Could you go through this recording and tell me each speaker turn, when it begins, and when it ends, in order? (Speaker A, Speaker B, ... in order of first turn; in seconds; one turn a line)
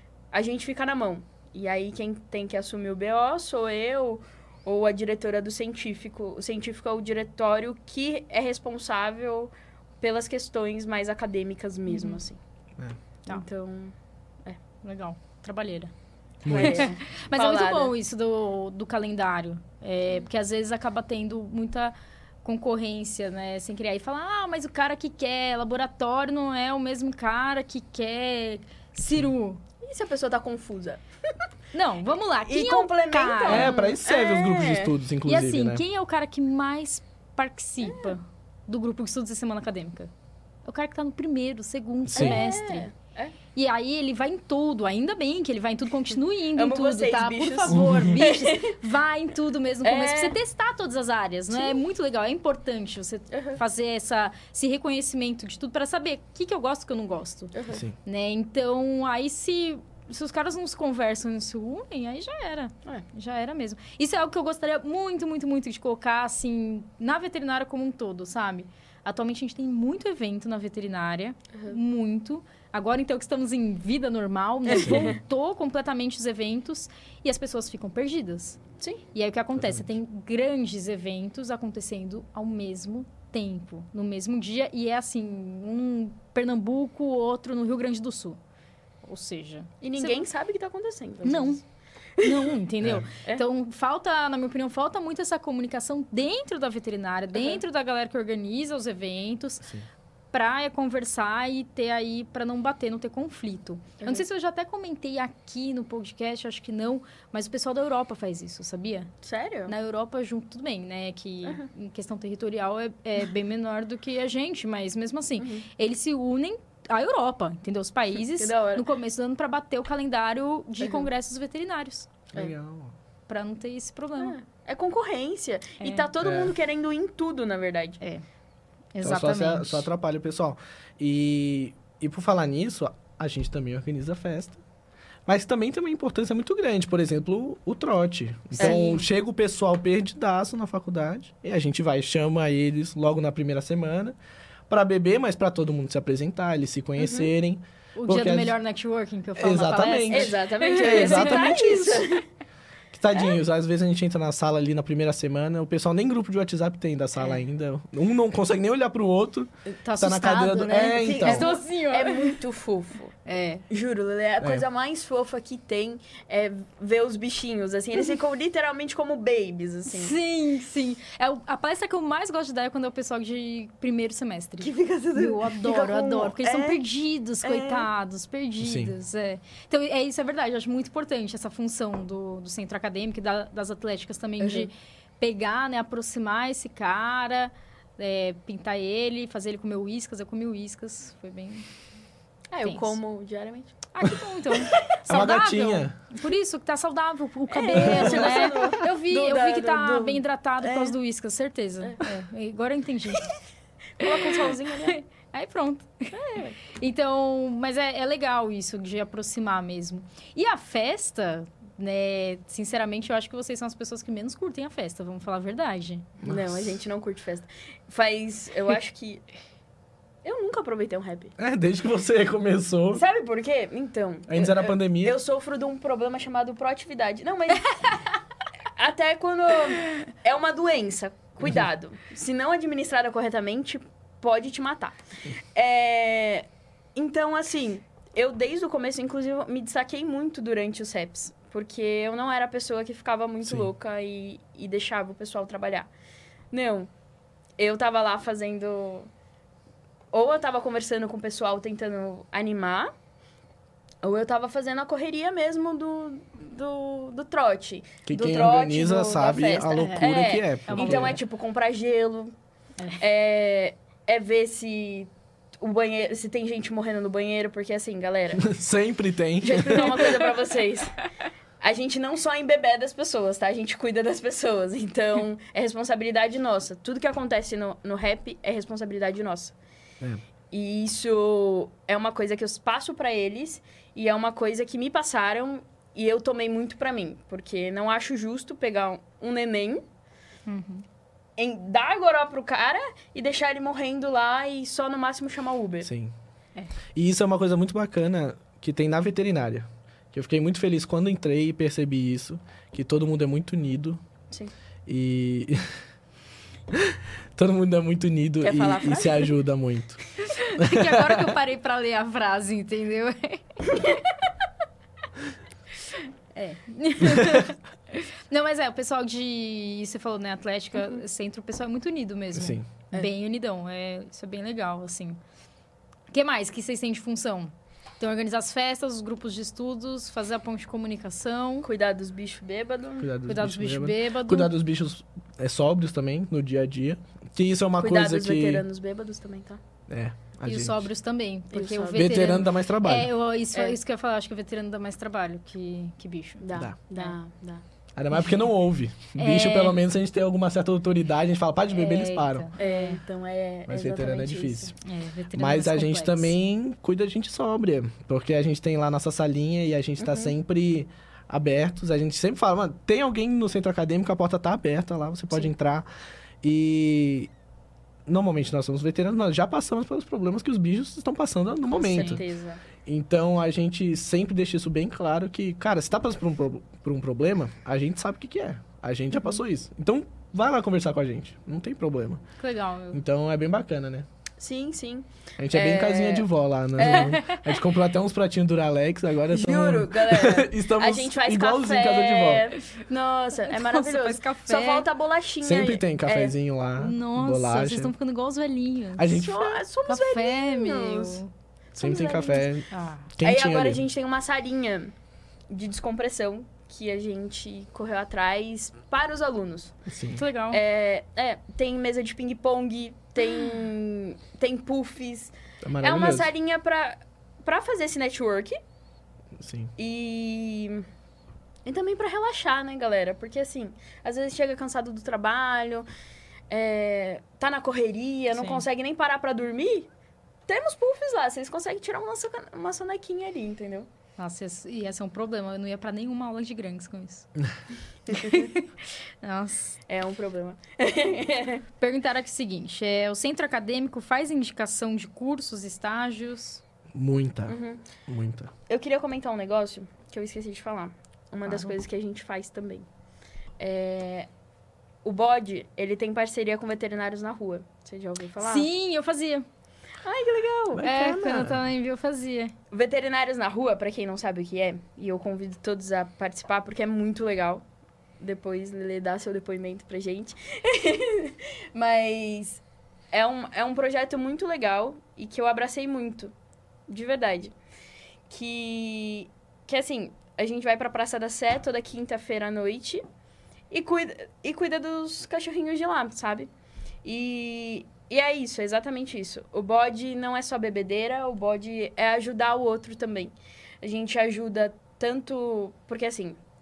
Speaker A: 0.3-12.4
Speaker B: 11.9-12.2
Speaker A: 13.3-13.9
Speaker B: 14.8-15.9
Speaker C: 16.4-16.9
Speaker A: 16.4-17.9
Speaker B: 16.6-29.6
Speaker A: 29.8-31.0
Speaker B: 31.7-33.7
Speaker A: 32.4-34.9
Speaker C: 33.5-35.8
Speaker B: 35.2-40.1
Speaker A: 37.8-38.1
Speaker B: 40.6-42.9
Speaker C: 42.1-42.4
Speaker A: 42.1-43.3
Speaker B: 43.5-57.5
Speaker A: 46.5-48.8
Speaker C: 47.7-48.1
Speaker A: 49.8-50.4
Speaker A: 51.5-51.8
Speaker A: 53.3-53.6
Speaker A: 57.5-57.8
Speaker C: 57.7-58.0
Speaker B: 58.0-78.6
Speaker A: 74.7-75.2
Speaker C: 74.8-75.1
Speaker B: 79.1-88.4
Speaker C: 79.6-79.9
Speaker B: 89.0-90.2
Speaker A: 89.8-91.6
Speaker B: 91.2-91.6
Speaker A: 92.2-92.5
Speaker B: 92.2-99.7
Speaker C: 92.8-93.1
Speaker A: 97.3-97.6
Speaker B: 100.3-109.1
Speaker A: 109.2-109.7
Speaker B: 109.7-122.1
Speaker A: 115.4-115.7
Speaker A: 118.2-118.8
Speaker A: 120.8-121.1
Speaker C: 122.3-122.9
Speaker B: 123.3-124.3
Speaker A: 124.2-128.0
Speaker B: 125.8-126.1
Speaker C: 126.2-126.5
Speaker B: 128.9-129.9
Speaker C: 129.0-134.6
Speaker C: 135.2-144.2
Speaker B: 138.5-139.0
Speaker A: 138.6-138.9
Speaker C: 144.7-148.6
Speaker A: 147.0-147.3
Speaker B: 147.9-151.7
Speaker C: 149.4-152.1
Speaker A: 150.1-152.2
Speaker C: 152.9-161.5
Speaker B: 157.2-157.4
Speaker B: 159.8-162.3
Speaker A: 161.0-163.2
Speaker B: 163.2-163.6
Speaker A: 163.7-170.2
Speaker B: 169.9-191.7
Speaker A: 174.6-176.8
Speaker A: 177.4-177.9
Speaker C: 178.6-178.9
Speaker A: 184.4-184.7
Speaker A: 192.5-193.8
Speaker B: 192.6-193.0
Speaker B: 193.9-203.3
Speaker C: 195.1-195.9
Speaker A: 197.5-200.9
Speaker C: 197.8-198.3
Speaker A: 204.0-205.0
Speaker B: 204.0-206.1
Speaker A: 206.1-206.6
Speaker B: 206.7-216.1
Speaker C: 216.2-216.7
Speaker A: 216.2-219.2
Speaker A: 220.2-221.3
Speaker C: 221.4-223.0
Speaker A: 222.9-228.0
Speaker C: 224.3-225.2
Speaker A: 228.8-235.0
Speaker A: 235.5-245.9
Speaker C: 243.4-243.7
Speaker A: 246.5-246.9
Speaker A: 247.6-249.1
Speaker A: 250.1-252.9
Speaker A: 254.0-262.3
Speaker C: 258.1-261.2
Speaker B: 259.7-260.1
Speaker B: 260.6-261.2
Speaker A: 263.0-268.5
Speaker C: 268.3-270.1
Speaker A: 269.4-271.0
Speaker A: 271.6-279.5
Speaker A: 280.5-289.8
Speaker B: 290.5-290.8
Speaker A: 291.4-295.9
Speaker C: 295.8-296.1
Speaker C: 296.9-304.0
Speaker C: 304.9-305.6
Speaker C: 306.7-310.0
Speaker A: 308.4-309.3
Speaker B: 310.2-313.9
Speaker C: 310.6-311.3
Speaker B: 316.3-325.2
Speaker C: 317.0-317.4
Speaker C: 322.3-322.7
Speaker B: 326.1-331.7
Speaker A: 331.6-333.1
Speaker C: 333.0-338.6
Speaker B: 333.3-334.5
Speaker A: 337.8-339.6
Speaker C: 339.9-340.9
Speaker B: 340.4-346.4
Speaker A: 341.5-342.3
Speaker C: 341.9-343.1
Speaker A: 346.4-347.6
Speaker C: 347.9-352.5
Speaker B: 349.1-349.8
Speaker B: 351.7-353.0
Speaker A: 352.6-354.7
Speaker C: 353.7-354.7
Speaker B: 354.8-356.3
Speaker C: 355.3-365.9
Speaker A: 360.0-360.3
Speaker C: 366.4-367.3
Speaker C: 368.1-372.2
Speaker A: 371.7-372.6
Speaker B: 371.8-372.2
Speaker C: 372.9-382.2
Speaker B: 382.4-383.0
Speaker C: 382.9-384.1
Speaker A: 384.4-387.2
Speaker C: 385.4-392.5
Speaker B: 386.8-387.4
Speaker A: 389.3-396.3
Speaker B: 393.5-394.9
Speaker C: 395.4-397.9
Speaker B: 396.8-399.2
Speaker C: 399.0-399.6
Speaker A: 399.1-401.2
Speaker B: 399.9-401.3
Speaker A: 401.7-402.5
Speaker C: 401.8-403.8
Speaker B: 402.7-403.1
Speaker A: 403.2-404.9
Speaker A: 405.5-409.8
Speaker C: 409.9-410.2
Speaker B: 410.1-410.6
Speaker A: 410.5-418.6
Speaker C: 415.6-416.3
Speaker C: 419.4-419.7
Speaker A: 419.8-420.9
Speaker A: 421.6-425.9
Speaker A: 426.5-429.9
Speaker B: 428.3-428.6
Speaker A: 430.5-433.9
Speaker B: 434.2-437.3
Speaker B: 438.1-439.8
Speaker A: 438.1-438.4
Speaker A: 439.9-441.6
Speaker B: 441.8-446.6
Speaker C: 446.9-448.5
Speaker A: 447.5-447.8
Speaker A: 448.7-452.9
Speaker B: 451.4-451.7
Speaker A: 453.6-454.3
Speaker A: 455.0-458.7
Speaker B: 458.4-459.4
Speaker A: 460.0-460.9
Speaker C: 460.7-461.6
Speaker B: 460.8-462.5
Speaker A: 462.7-467.6
Speaker A: 468.2-476.3
Speaker A: 476.9-477.5
Speaker A: 478.3-483.0
Speaker A: 483.7-486.5
Speaker A: 487.0-496.4